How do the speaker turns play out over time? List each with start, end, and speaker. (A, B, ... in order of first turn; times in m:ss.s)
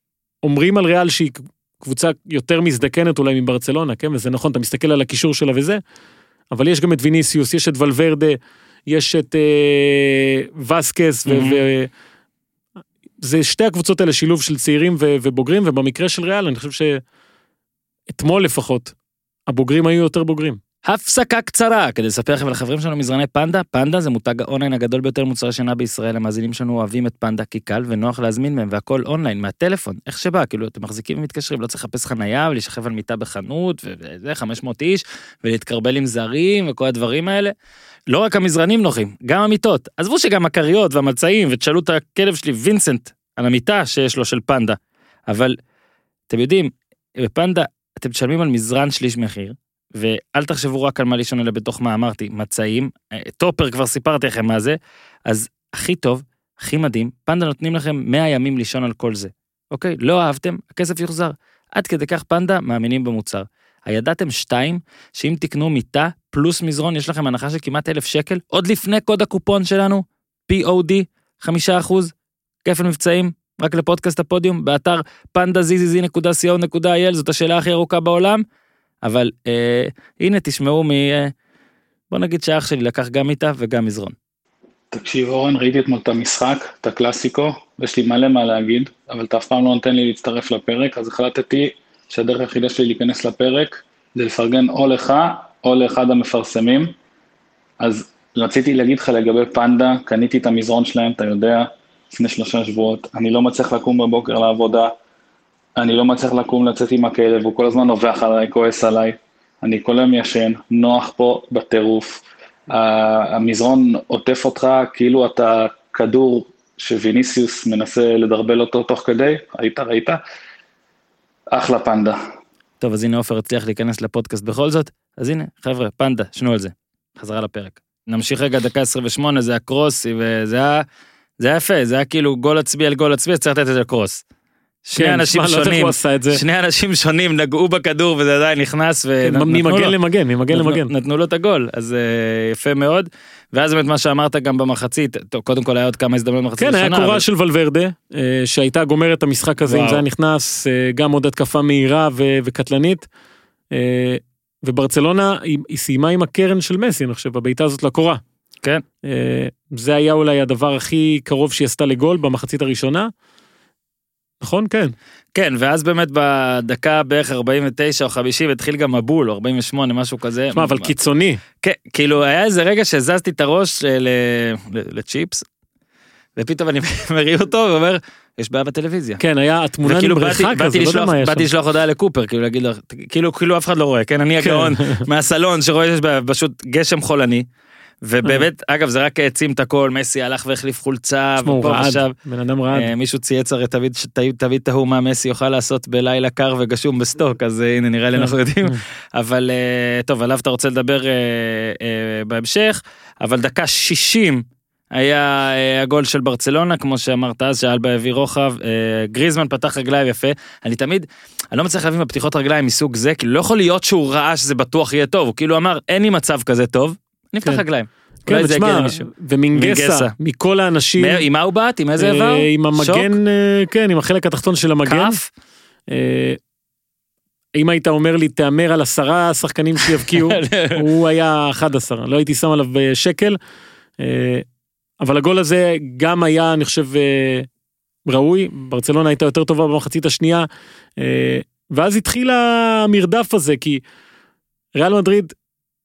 0:00.4-0:05.8 A
0:06.5-0:11.9 A
0:11.3-0:11.6 B
0:13.2-0:17.0 A
0:18.1-0:18.9 A
0:19.5-0:20.6 A
0:20.8-0:37.5 B
0:38.1-0:45.6 B
0:46.3-1:12.1 B
1:12.6-1:18.4 B
1:19.0-1:21.3 B
1:22.1-1:24.1 B
1:24.9-1:36.9 C
1:37.8-1:44.9 C
1:45.8-2:00.2 C
2:01.5-2:02.2 C
2:02.8-2:10.8 B
2:11.4-2:14.2 B
2:14.8-2:19.9 B
2:15.0-2:16.4 A
2:19.2-2:20.9 A
2:20.5-2:27.2 B
2:26.6-2:33.1 A
2:29.6-2:30.0 B
2:33.7-2:38.2 A
2:39.0-2:43.1 A
2:44.4-2:44.9 A
2:45.3-2:50.9 B
2:50.5-2:51.4 A
2:51.6-2:55.4 B
2:56.4-2:59.2 B
2:59.2-3:01.5 A
2:59.8-3:07.4 B
3:04.4-3:05.0 A
3:08.0-3:12.1 B
3:11.4-3:12.9 A
3:12.7-3:40.1 B
3:18.2-3:18.7 A
3:38.2-3:41.2 A
3:41.0-3:43.1 B
3:42.0-3:45.2 A
3:44.8-3:45.3 B
3:45.9-3:46.4 A
3:47.5-3:53.4 A
3:49.9-3:50.8 B
3:54.0-3:54.4 A
3:55.0-3:57.5 A
3:58.0-4:00.5 A
4:01.0-4:03.8 A
4:04.8-4:05.3 A